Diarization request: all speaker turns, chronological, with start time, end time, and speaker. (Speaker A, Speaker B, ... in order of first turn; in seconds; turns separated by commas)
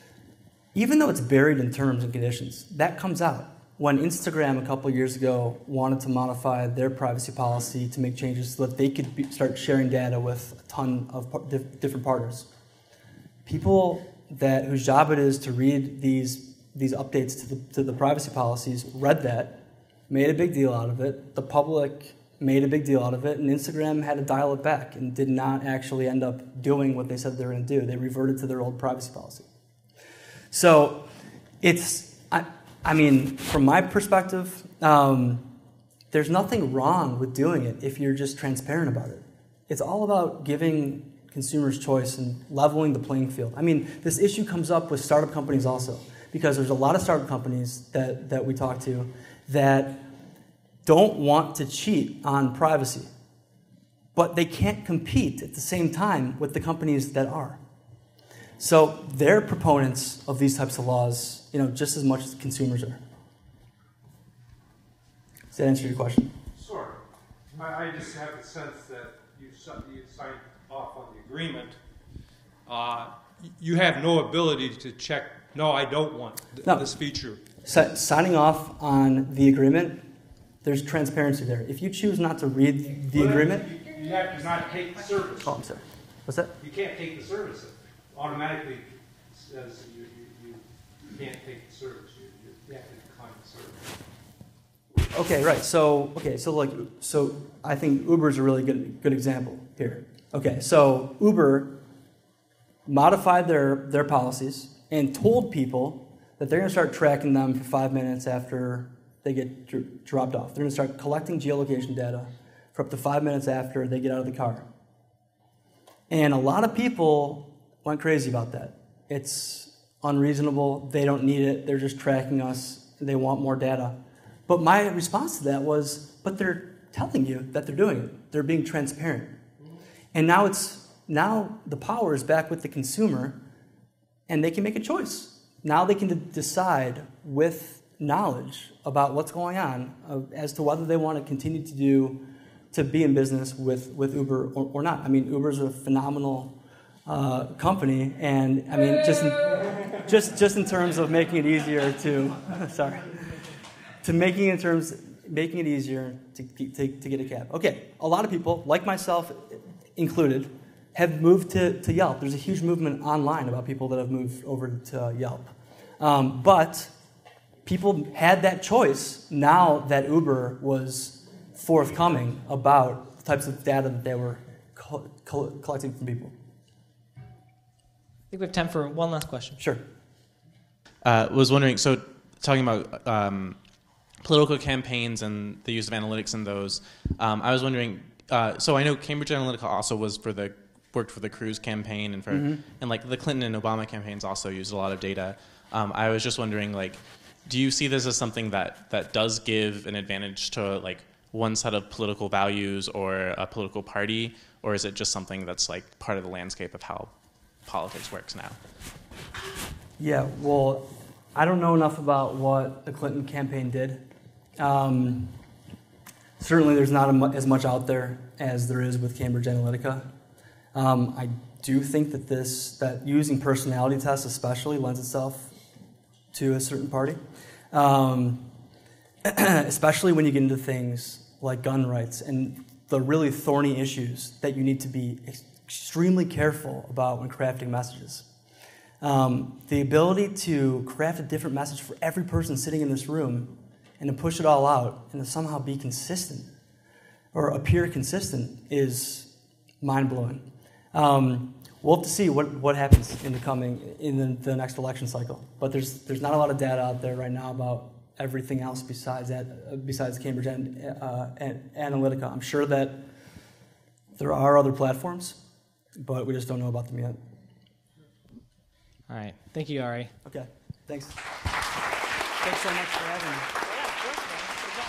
Speaker A: 0.7-12.5, Speaker A: 13.4-29.5, Speaker A: 30.5-31.1, Speaker A: 31.6-35.5, Speaker A: 36.1-50.0, Speaker A: 50.8-53.1, Speaker A: 54.1-57.6, Speaker A: 58.6-63.0, Speaker A: 65.5-66.3, Speaker B: 66.5-67.0, Speaker B: 67.5-71.8, Speaker B: 72.7-77.5, Speaker A: 77.6-80.1, Speaker A: 80.6-83.7, Speaker B: 83.1-85.6, Speaker A: 85.4-86.5, Speaker B: 86.6-93.9, Speaker A: 95.1-101.7, Speaker A: 102.8-114.6, Speaker A: 116.1-129.4, Speaker A: 130.1-133.4, Speaker A: 134.3-146.5, Speaker A: 147.1-153.2, Speaker A: 154.0-166.9, Speaker A: 167.6-176.3, Speaker C: 178.3-179.6, Speaker A: 179.6-179.8, Speaker D: 181.0-183.6, Speaker D: 184.2-207.1, Speaker A: 192.3-192.6, Speaker D: 207.6-208.6, Speaker A: 210.0-214.0, Speaker A: 214.6-215.4, Speaker A: 216.4-220.1, Speaker A: 220.7-225.5, Speaker A: 226.3-227.2, Speaker A: 227.7-228.5, Speaker A: 229.2-238.3, Speaker A: 239.0-246.5, Speaker A: 247.3-249.3, Speaker A: 249.8-263.0, Speaker A: 264.2-265.4, Speaker A: 266.0-267.2, Speaker C: 269.1-270.1, Speaker A: 270.2-271.2, Speaker A: 272.4-273.5, Speaker C: 273.8-274.4